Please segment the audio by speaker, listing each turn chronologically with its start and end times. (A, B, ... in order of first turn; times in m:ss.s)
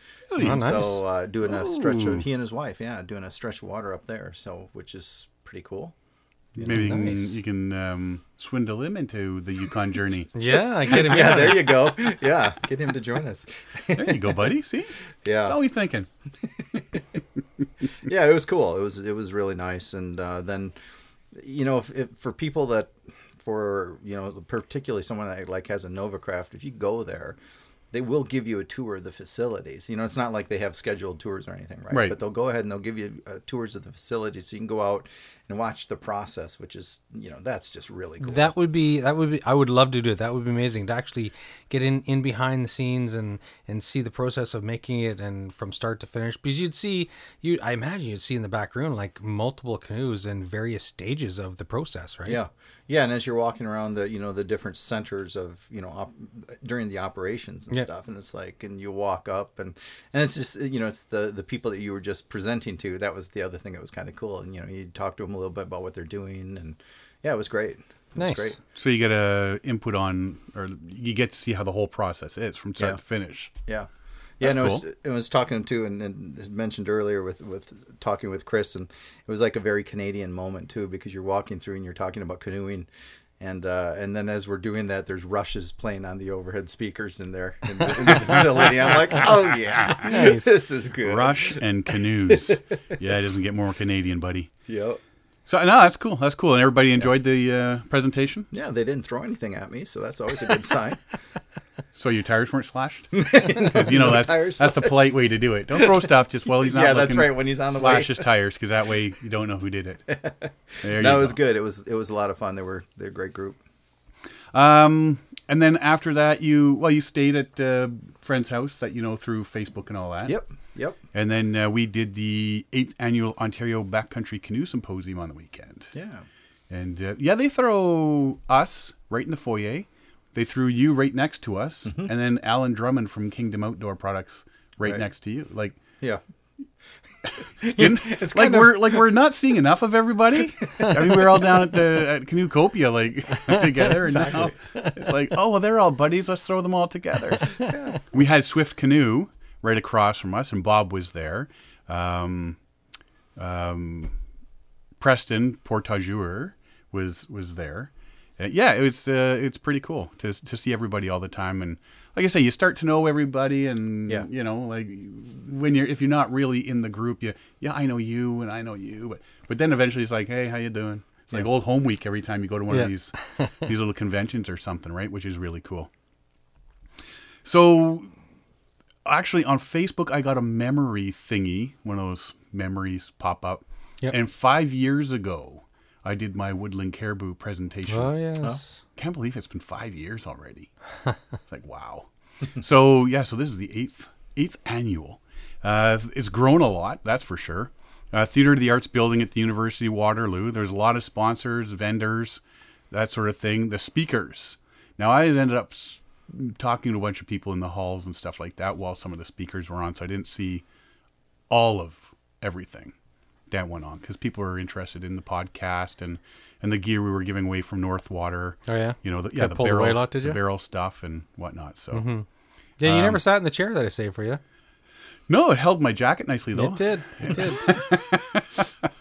0:00.3-0:00.9 A
0:00.4-0:01.0 B
0:00.4-0:05.9 C
0:01.4-0:02.2 A
0:06.6-0:06.9 C
0:06.6-0:10.3 A
0:06.7-0:07.4 B
0:10.4-0:12.0 B
0:10.4-0:14.5 C
0:13.9-0:16.1 A
0:15.2-0:15.6 C
0:16.6-0:17.0 C
0:18.0-0:20.8 C
0:21.3-0:27.4 C
0:27.9-0:38.5 C
0:31.9-0:32.2 A
0:38.2-0:52.4 B
0:52.2-1:08.6 C
1:08.2-1:08.5 B
1:08.7-1:13.5 A
1:14.4-1:22.9 C
1:14.4-1:14.8 A
1:23.4-1:31.6 C
1:29.9-1:30.6 B
1:31.0-1:34.5 A
1:32.3-1:32.6 C
1:34.7-1:35.0 C
1:35.5-1:38.5 A
1:38.5-1:41.0 C
1:41.9-1:50.1 A
1:43.1-1:45.0 C
1:45.7-1:48.3 C
1:50.1-1:53.6 C
1:50.8-1:51.4 A
1:54.5-2:00.4 A
2:00.2-2:01.0 C
2:01.1-2:05.9 A
2:05.9-2:06.2 C
2:06.7-2:15.8 A
2:17.6-2:19.1 C
2:17.6-2:27.6 A
2:20.4-2:21.8 C
2:23.8-2:24.9 B
2:24.2-2:24.5 C
2:27.7-2:27.9 C
2:28.1-2:32.6 A
2:33.4-2:34.2 A
2:35.0-2:55.9 A
2:52.7-2:53.6 B
2:57.4-2:58.1 A
2:59.0-3:08.1 A
3:07.9-3:08.8 B
3:09.0-3:10.7 A
3:11.5-3:30.6 A
3:31.5-3:32.9 A
3:33.5-3:42.1 A
3:38.7-3:40.4 B
3:41.9-3:42.3 B
3:42.8-3:44.4 B
3:42.8-3:43.2 A
3:45.3-3:48.7 A
3:46.6-3:47.8 B